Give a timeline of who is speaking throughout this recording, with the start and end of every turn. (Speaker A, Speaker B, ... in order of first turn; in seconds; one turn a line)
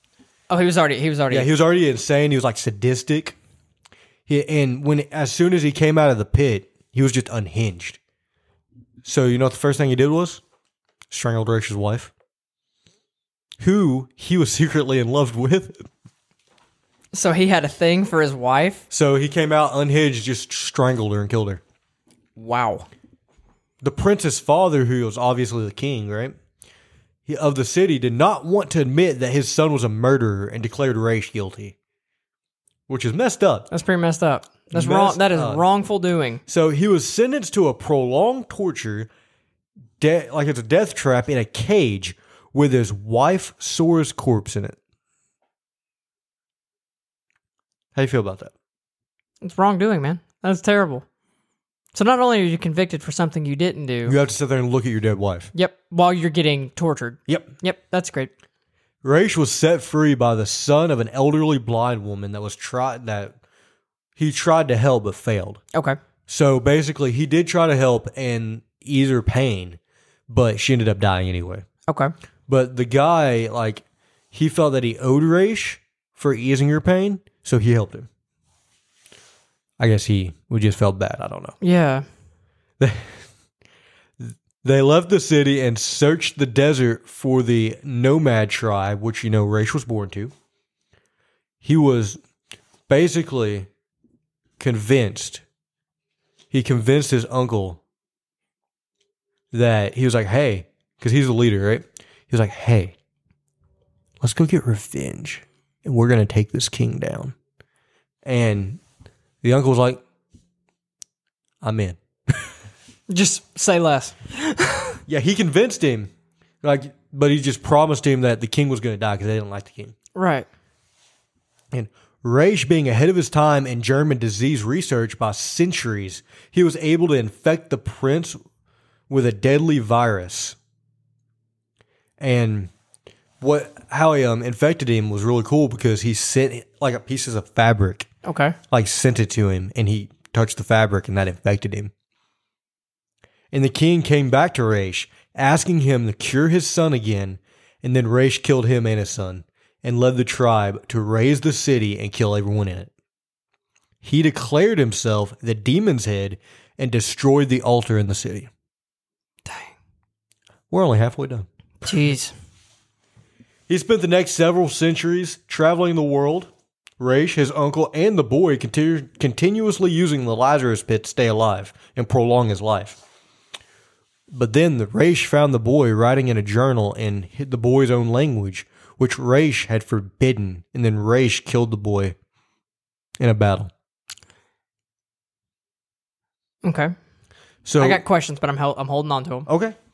Speaker A: 0.5-1.5
Speaker B: 1.3-3.4
Speaker B: 4.3-8.0
Speaker B: 9.0-10.4
Speaker B: 11.1-12.1
Speaker B: 13.6-15.8
Speaker A: 17.1-18.8
Speaker B: 18.9-21.6
Speaker A: 22.4-22.9
Speaker B: 23.8-26.4
Speaker B: 27.2-31.7
Speaker B: 32.9-33.7
Speaker A: 33.7-36.4
Speaker B: 34.7-35.6
Speaker B: 36.5-39.1
Speaker B: 40.0-44.8
Speaker B: 47.9-48.5
Speaker A: 49.4-51.0
Speaker A: 51.9-54.2
Speaker B: 54.0-55.5
Speaker A: 55.5-58.3
Speaker B: 57.3-57.5
Speaker B: 59.0-63.4
Speaker B: 64.2-65.6
Speaker B: 66.3-71.7
Speaker A: 71.9-72.1
Speaker B: 72.5-78.1
Speaker B: 79.8-81.5
Speaker A: 81.6-82.0
Speaker B: 82.8-83.3
Speaker B: 84.2-90.3
Speaker B: 91.6-92.2
Speaker B: 92.9-93.7
Speaker B: 94.6-95.4
Speaker B: 96.5-97.8
Speaker B: 99.5-102.9
Speaker B: 104.2-107.3
Speaker B: 108.2-108.8
Speaker B: 109.4-110.0
Speaker B: 111.6-112.4
Speaker A: 113.1-115.0
Speaker B: 115.1-116.1
Speaker B: 116.6-119.9
Speaker A: 120.1-120.5
Speaker B: 121.7-128.4
Speaker B: 129.1-130.6
Speaker B: 132.2-132.7
Speaker B: 133.4-138.1
Speaker A: 138.2-138.6
Speaker B: 138.7-141.9
Speaker B: 143.5-152.9
Speaker B: 154.0-158.5
Speaker A: 159.4-159.7
Speaker B: 160.7-161.5
Speaker A: 161.8-162.3
Speaker B: 163.7-173.0
Speaker B: 174.3-182.2
Speaker B: 183.2-183.7
Speaker A: 186.6-186.9
Speaker B: 187.6-188.0
Speaker A: 187.8-189.5
Speaker B: 189.5-189.8